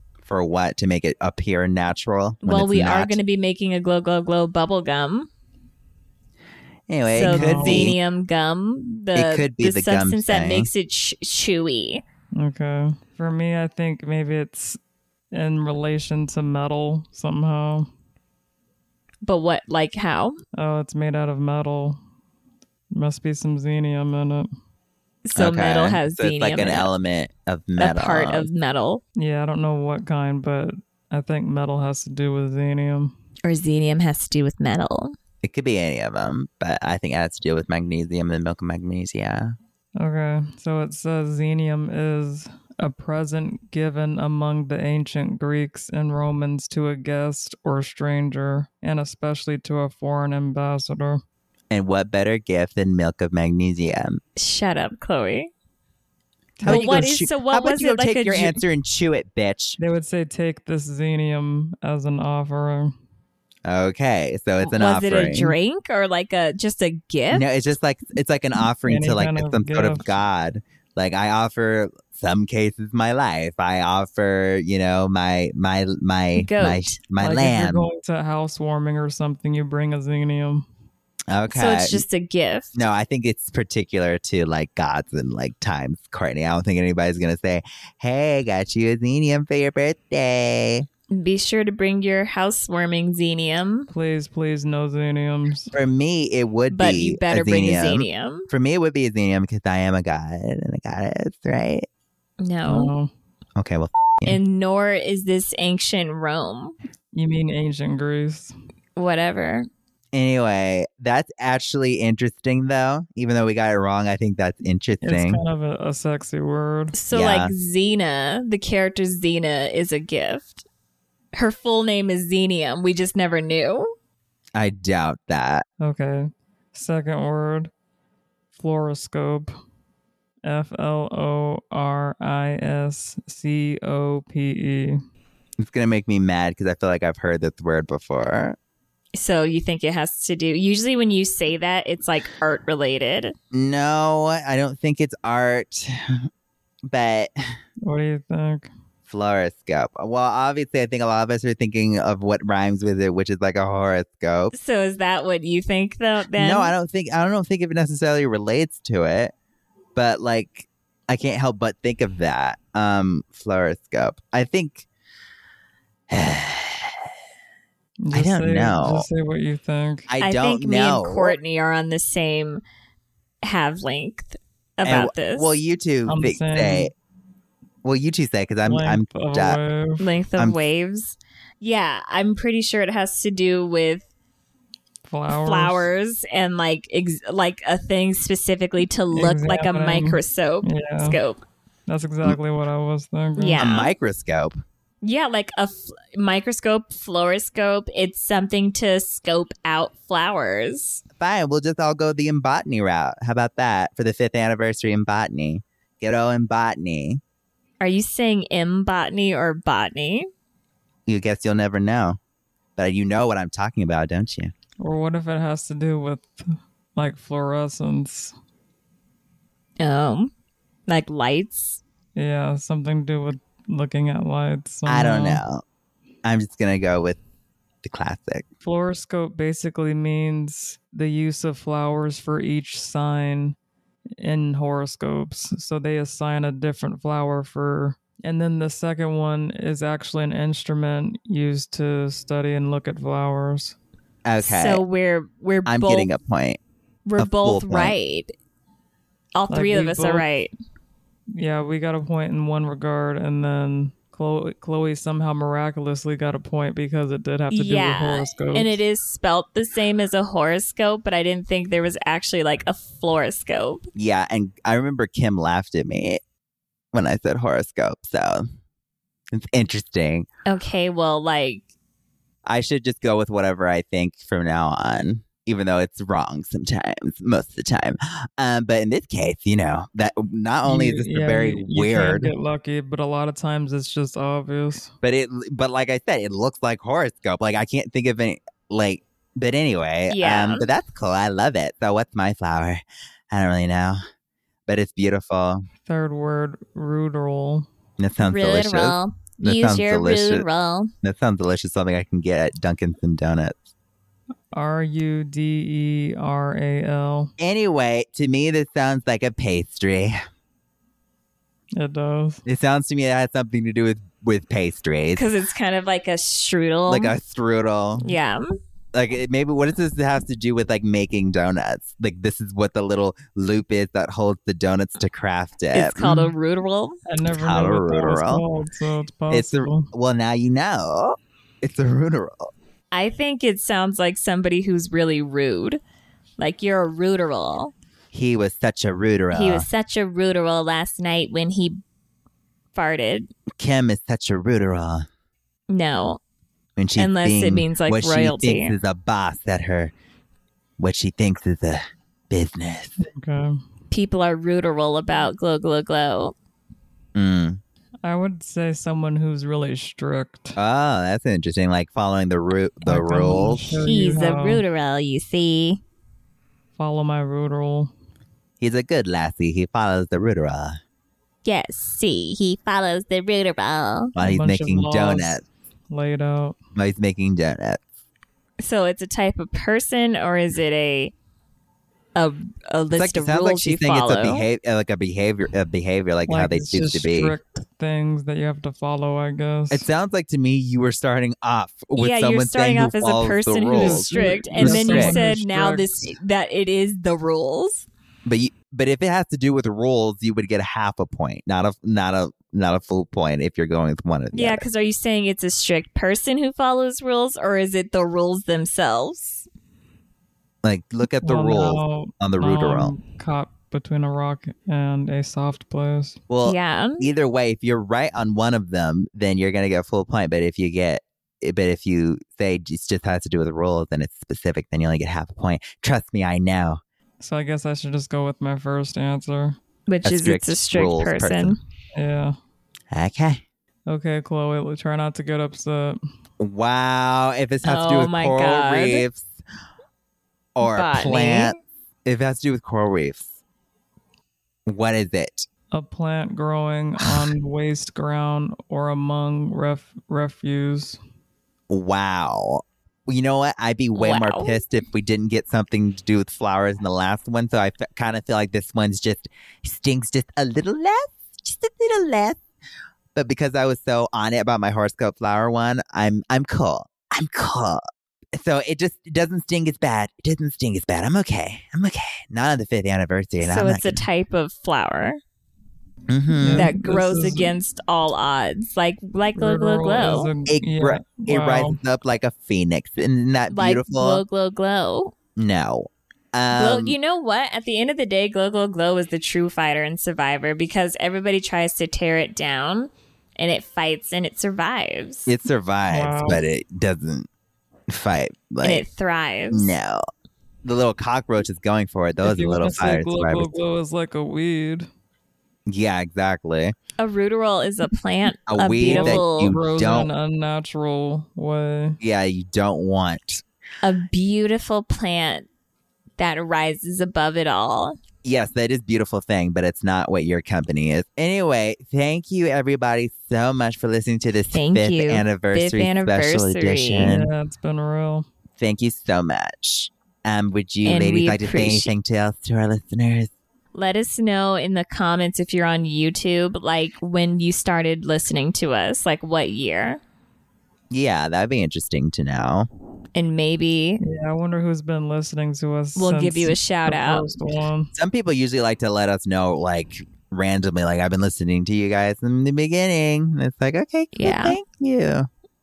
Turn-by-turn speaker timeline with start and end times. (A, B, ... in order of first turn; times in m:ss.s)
0:00.2-0:03.2 A
0:02.4-0:05.3 B
0:06.9-0:08.0 A
0:07.1-0:12.0 B
0:07.2-0:07.9 C
0:09.1-0:10.7 A
0:12.3-0:14.8 C
0:15.3-0:17.9 C
0:19.2-0:20.4 B
0:20.6-0:22.0 C
0:22.9-0:24.5 C
0:25.2-0:26.9 B
0:25.4-0:28.5 A
0:27.8-0:29.0 B
0:29.2-0:33.1 C
0:33.4-0:35.2 B
0:35.4-0:39.5 A
0:40.0-0:51.2 C
0:51.7-0:54.2 A
0:54.4-0:55.5 B
0:56.6-0:57.0 C
0:56.6-0:59.8 A
0:56.6-0:58.6 B
0:59.8-1:02.9 C
1:03.6-1:05.6 A
1:04.6-1:07.4 B
1:07.3-1:17.9 A
1:08.8-1:10.1 C
1:16.4-1:17.0 B
1:17.2-1:20.6 C
1:21.3-1:22.0 A
1:21.5-1:22.7 B
1:22.7-1:30.9 A
1:31.1-1:33.9 B
1:33.9-1:35.7 C
1:35.7-1:41.9 A
1:36.7-1:38.5 B
1:42.4-1:42.9 B
1:42.6-1:43.1 C
1:43.6-1:44.4 A
1:44.2-1:46.7 B
1:47.1-1:48.5 C
1:49.0-1:49.7 B
1:50.1-1:55.4 A
1:55.0-1:56.9 C
1:56.9-2:00.6 B
1:57.1-1:57.5 A
2:01.3-2:03.9 B
2:04.6-2:05.6 A
2:05.8-2:07.7 C
2:08.5-2:09.5 C
2:10.4-2:15.0 C
2:15.6-2:18.6 A
2:19.1-2:23.3 B
2:23.5-2:26.2 A
2:26.8-2:27.3 A
2:27.8-2:28.7 C
2:29.1-2:34.5 A
2:34.5-2:36.7 B
2:36.3-2:39.3 A
2:39.9-2:44.8 A
2:46.1-2:47.1 A
2:48.0-2:50.1 C
2:48.1-2:49.0 A
2:50.1-2:51.4 A
2:50.2-2:52.6 B
2:53.4-2:55.5 B
2:54.8-2:56.9 A
2:56.1-2:56.9 C
2:57.8-2:59.6 A
2:58.6-3:00.0 C
3:00.0-3:04.0 B
3:05.0-3:05.9 C
3:05.3-3:11.4 B
3:09.1-3:11.2 C
3:11.9-3:13.7 C
3:13.4-3:13.9 B
3:13.6-3:14.5 A
3:15.0-3:21.0 B
3:21.2-3:27.2 A
3:27.8-3:30.3 B
3:31.1-3:32.2 A
3:32.8-3:34.5 A
3:34.8-3:38.3 C
3:39.8-3:40.3 B
3:40.9-3:41.8 B
3:42.2-3:45.4 C
3:44.9-3:45.6 A
3:46.2-3:47.2 A
3:47.8-3:48.4 A
3:48.6-3:53.5 C
3:54.2-4:03.8 C
4:04.2-4:04.8 A
4:04.4-4:06.1 B
4:05.7-4:06.6 A
4:07.0-4:08.3 B
4:07.2-4:07.9 A
4:09.3-4:10.5 B
4:09.5-4:10.2 C
4:11.3-4:18.8 C
4:17.5-4:23.9 B
4:23.9-4:26.2 A
4:26.9-4:28.5 A
4:29.3-4:30.3 A
4:30.5-4:31.6 B
4:32.4-4:42.3 A
4:40.6-4:44.9 C
4:45.0-4:54.0 A
4:50.1-4:50.7 B
4:54.7-4:55.7 A
4:55.8-4:57.7 C
4:58.0-5:00.4 A
4:58.2-5:00.9 B
5:01.0-5:03.7 A
5:04.5-5:07.3 C
5:07.4-5:10.2 A
5:11.7-5:12.4 C
5:12.4-5:15.2 A
5:15.1-5:17.1 B
5:16.9-5:18.1 A
5:18.0-5:18.6 B
5:18.9-5:26.2 A
5:25.7-5:27.0 B
5:27.0-5:29.9 C
5:27.3-5:28.4 A
5:29.3-5:32.5 A
5:32.9-5:35.8 B
5:36.4-5:37.7 B
5:38.1-5:39.6 A
5:39.3-5:41.8 B
5:42.7-5:43.3 B
5:43.6-5:45.1 A
5:45.7-5:46.2 B
5:46.8-5:49.9 A
5:47.0-5:48.7 B
5:50.8-5:53.0 A
5:53.0-5:53.6 C
5:53.9-5:56.3 B
5:57.1-5:57.6 A
5:58.0-6:00.6 C
6:00.6-6:03.8 A
6:02.8-6:04.6 C
6:03.8-6:05.8 B
6:06.8-6:07.9 C
6:08.6-6:10.8 A
6:11.4-6:14.1 B
6:14.1-6:15.4 A
6:14.2-6:16.6 C
6:16.7-6:17.8 A
6:18.6-6:21.1 B
6:22.2-6:24.4 B
6:23.0-6:27.3 A
6:26.3-6:29.8 C
6:29.7-6:35.2 A
6:32.0-6:37.8 B
6:33.7-6:36.1 C
6:38.2-6:44.6 A
6:44.3-6:49.5 B
6:50.6-6:52.9 A
6:51.2-6:56.2 C
6:56.3-7:06.8 A
6:56.4-6:57.0 B
7:07.2-7:09.6 C
7:09.9-7:11.6 B
7:10.0-7:11.6 A
7:11.9-7:12.4 C
7:12.9-7:13.4 A
7:13.9-7:16.0 C
7:16.4-7:19.3 A
7:17.6-7:19.0 B
7:20.5-7:23.3 A
7:20.6-7:21.6 B
7:24.7-7:25.5 A
7:25.7-7:31.0 C
7:31.7-7:42.4 A
7:33.9-7:34.6 B
7:43.1-7:47.8 A
7:48.3-7:54.0 A
7:53.4-7:55.2 B
7:56.1-7:56.7 A
7:56.3-7:57.5 C
7:56.5-8:00.3 B
7:59.4-8:01.8 C
8:00.5-8:04.2 A
8:03.5-8:05.1 B
8:05.4-8:07.0 A
8:06.5-8:15.3 B
8:15.2-8:17.3 A
8:15.9-8:16.4 C
8:17.9-8:18.8 A
8:18.6-8:19.7 B
8:19.5-8:20.0 A
8:20.6-8:23.6 A
8:22.2-8:24.9 C
8:25.7-8:26.7 A
8:27.0-8:29.6 B
8:28.5-8:30.1 A
8:28.8-8:32.0 C
8:32.0-8:33.4 A
8:33.8-8:35.5 B
8:36.2-8:38.0 B
8:38.2-8:47.3 A
8:44.5-8:47.1 B
8:47.0-8:48.2 C
8:48.6-8:53.3 A
8:50.8-8:51.9 B
8:53.7-9:00.0 B
9:00.9-9:02.7 A
9:03.1-9:04.0 B
9:04.0-9:07.9 C
9:06.0-9:07.2 B
9:07.9-9:15.3 A
9:14.1-9:14.6 B